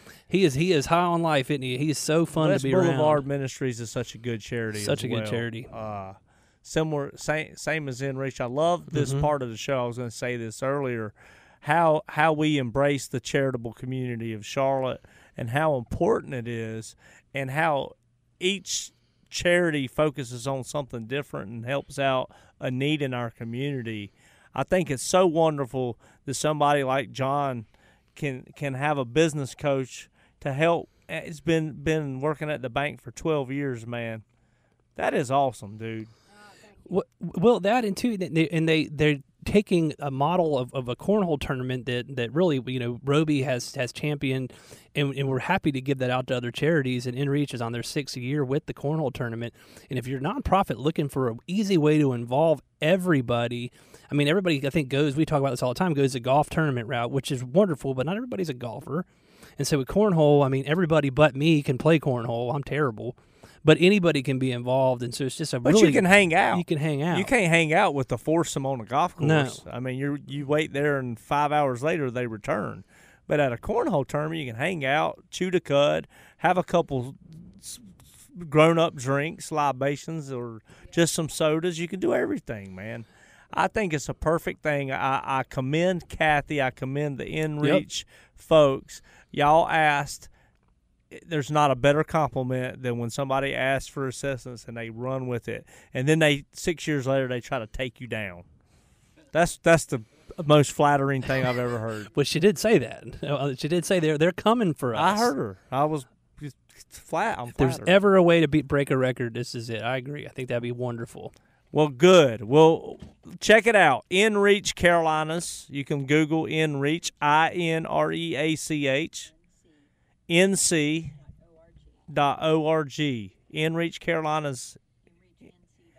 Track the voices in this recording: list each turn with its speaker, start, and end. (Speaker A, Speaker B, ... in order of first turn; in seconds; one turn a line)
Speaker A: 0.3-3.2
Speaker B: 2.4-34.2
Speaker A: 4.7-5.7
Speaker A: 8.9-9.3
Speaker B: 35.0-36.1
Speaker A: 36.9-59.1
Speaker A: 59.6-67.3
Speaker B: 65.7-77.8
Speaker A: 69.2-69.6
Speaker B: 78.4-90.3
Speaker B: 91.1-98.5
Speaker B: 99.3-102.1
Speaker A: 102.1-105.3
Speaker B: 105.0-108.0
Speaker A: 107.6-111.3
Speaker B: 111.7-119.3
Speaker B: 120.3-121.2
Speaker B: 122.1-124.8